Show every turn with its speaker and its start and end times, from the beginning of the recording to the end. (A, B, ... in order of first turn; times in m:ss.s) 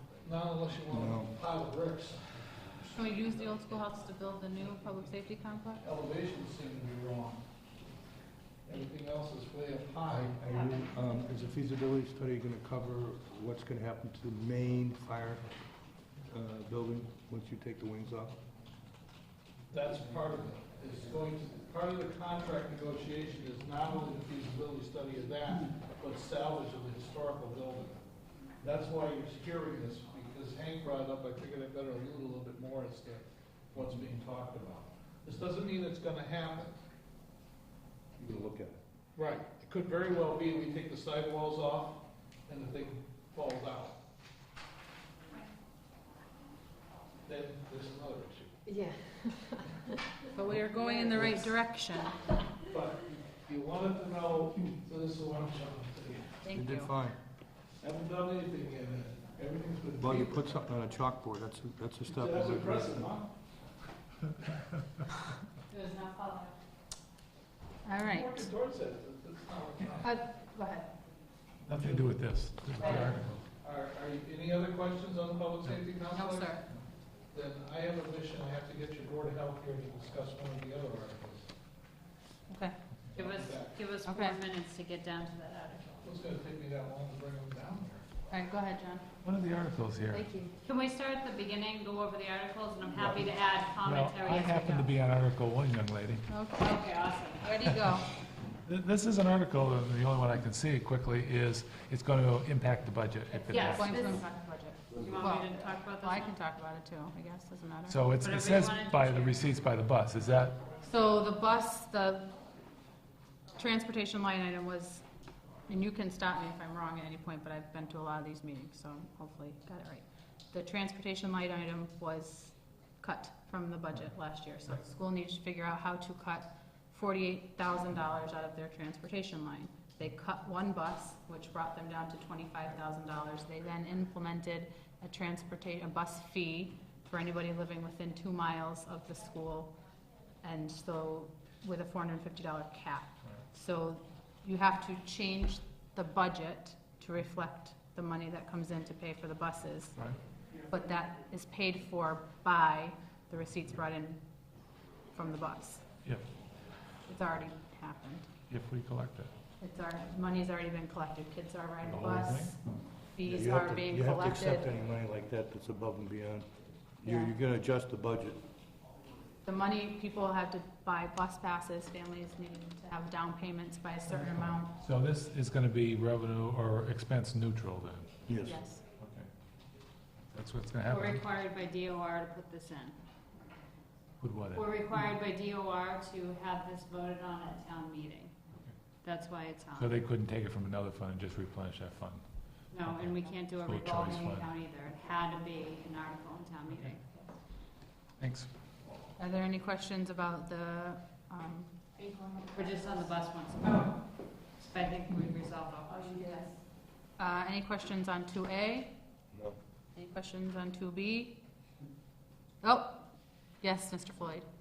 0:00.2-0:02.9 A
0:00.9-0:01.3 B
0:02.9-0:05.8 C
0:05.8-0:07.4 A
0:08.7-0:10.5 A
0:10.4-0:15.4 B
0:16.3-0:18.4 B
0:19.7-0:28.0 A
0:28.6-0:36.8 A
0:38.2-0:38.8 B
0:39.2-0:44.0 A
0:47.3-0:48.5 A
0:48.7-0:49.8 D
0:50.4-0:52.0 C
0:50.8-0:51.4 D
0:50.8-0:51.3 A
0:52.7-0:56.4 A
0:56.4-0:57.0 C
0:56.5-0:57.2 B
0:57.8-1:00.5 A
1:00.0-1:03.0 B
1:02.1-1:03.3 A
1:05.7-1:06.5 C
1:07.8-1:08.4 C
1:08.0-1:10.2 A
1:10.0-1:10.9 C
1:11.7-1:12.2 A
1:11.7-1:13.4 E
1:12.8-1:16.6 A
1:16.1-1:16.6 C
1:17.3-1:21.5 A
1:22.5-1:22.8 C
1:23.2-1:24.0 A
1:23.2-1:26.0 F
1:24.0-1:24.4 C
1:26.0-1:28.1 A
1:28.3-1:29.1 C
1:29.2-1:30.3 E
1:30.1-1:30.5 D
1:30.6-1:34.9 F
1:33.8-1:36.4 E
1:36.3-1:36.8 C
1:36.6-1:37.5 F
1:37.4-1:38.0 C
1:38.6-1:43.9 E
1:43.3-1:48.0 C
1:43.5-1:44.2 F
1:44.9-1:46.3 F
1:47.9-1:50.6 E
1:48.2-1:49.4 F
1:50.8-1:52.3 C
1:53.6-1:55.0 C
1:55.7-2:19.8 C
2:20.4-2:30.0 C
2:30.7-2:34.2 C
2:35.1-2:35.8 C
2:37.1-2:38.3 C
2:38.5-2:39.3 E
2:39.6-2:42.6 C
2:41.8-2:42.6 E
2:43.1-2:44.7 C
2:43.2-2:46.5 B
2:47.0-2:48.4 B
2:47.1-2:47.3 C
2:49.4-2:54.7 C
2:54.8-2:58.1 E
2:58.3-2:58.6 B
2:58.4-2:58.8 C
2:59.0-2:59.3 E
3:00.3-3:01.2 E
3:00.9-3:03.0 F
3:04.2-3:05.0 E
3:04.6-3:08.4 F
3:09.0-3:10.0 F
3:09.8-3:14.5 E
3:12.7-3:17.3 F
3:18.2-3:18.5 E
3:19.2-3:23.1 C
3:22.5-3:24.0 F
3:24.6-3:26.2 F
3:25.9-3:26.5 C
3:27.2-3:29.0 C
3:29.9-3:31.4 C
3:32.6-3:33.1 C
3:33.6-3:34.5 C